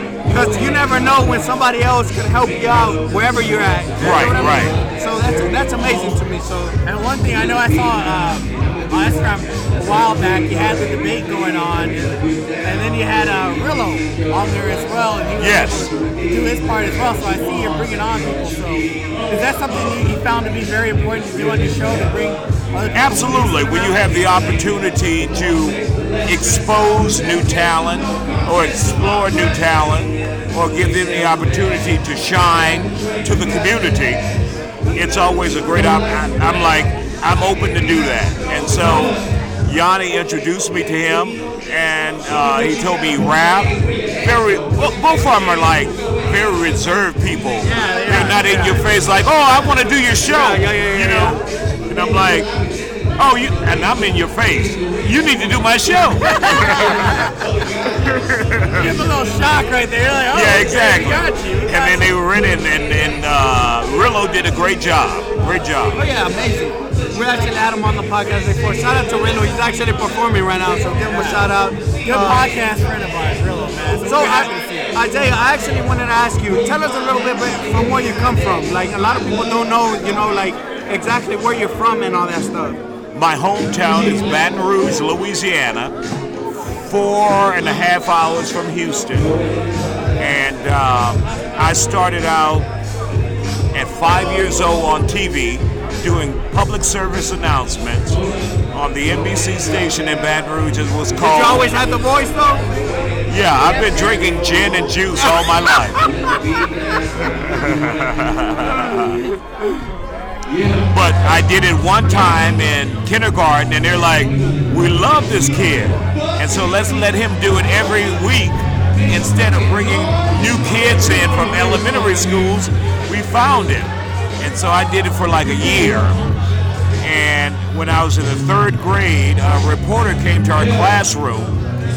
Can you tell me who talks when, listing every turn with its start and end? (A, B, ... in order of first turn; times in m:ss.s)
0:00.2-0:06.8 A
0:04.0-0:04.7 B
0:06.8-0:24.2 C
0:15.4-0:15.9 B
0:22.9-0:34.2 B
0:34.9-0:52.5 B
0:38.8-0:39.1 C
0:47.6-0:48.8 C
0:50.3-0:51.3 A
0:53.2-0:57.0 B
0:56.3-0:57.3 C
0:58.3-0:58.9 B
0:58.7-1:02.1 C
1:00.3-1:06.0 B
1:05.9-1:12.5 A
1:11.0-1:11.4 C
1:12.0-1:14.9 C
1:14.0-1:22.8 A
1:23.1-1:25.9 B
1:26.9-1:29.3 B
1:30.2-1:32.6 B
1:33.7-1:38.2 B
1:38.7-1:41.6 B
1:41.1-1:42.7 A
1:43.3-1:46.1 B
1:47.4-1:49.2 B
1:50.9-2:06.2 B
2:07.0-2:11.5 B